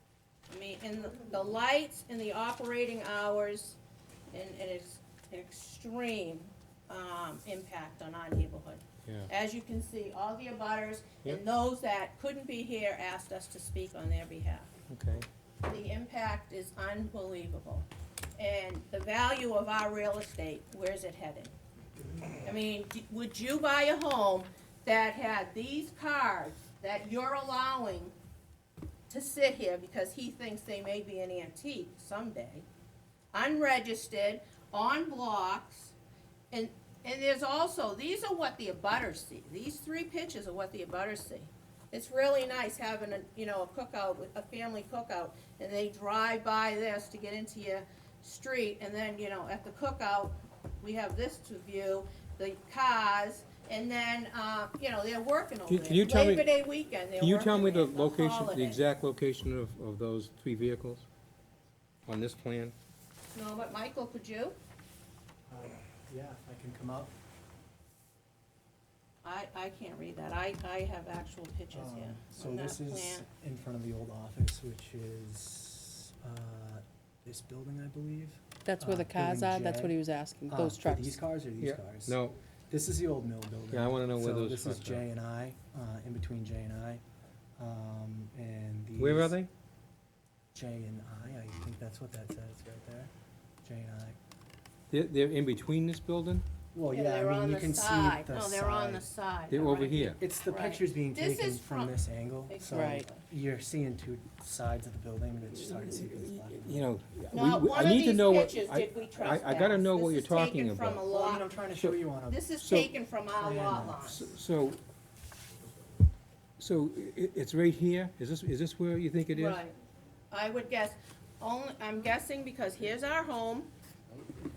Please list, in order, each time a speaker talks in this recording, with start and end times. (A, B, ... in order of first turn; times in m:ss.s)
0:00.5-0:03.8 A
0:04.3-0:14.7 A
0:14.9-0:15.3 B
0:15.6-0:21.5 A
0:22.4-0:28.1 A
0:29.1-0:32.6 A
0:33.3-0:35.9 A
0:36.5-0:58.8 A
0:55.7-0:56.5 B
0:57.2-1:01.1 B
1:02.1-1:02.7 B
1:03.3-1:04.6 A
1:05.5-1:07.1 C
1:09.2-1:13.2 A
1:11.7-1:20.0 C
1:18.6-1:21.2 D
1:20.5-1:27.0 C
1:21.6-1:22.4 B
1:23.7-1:25.1 B
1:27.6-1:29.4 C
1:29.0-1:29.5 B
1:30.5-1:33.1 C
1:33.6-1:34.2 C
1:34.9-1:36.4 B
1:36.7-1:39.1 C
1:36.9-1:42.0 A
1:39.5-1:40.2 B
1:40.0-1:46.9 C
1:42.5-1:43.2 A
1:42.7-1:43.1 D
1:45.7-1:51.1 B
1:47.3-1:51.5 A
1:51.1-1:52.5 C
1:52.3-1:54.3 A
1:52.6-1:52.9 B
1:53.4-1:54.1 C
1:54.1-1:54.8 B
1:56.6-1:59.6 B
1:59.3-1:59.8 A
2:00.3-2:03.7 A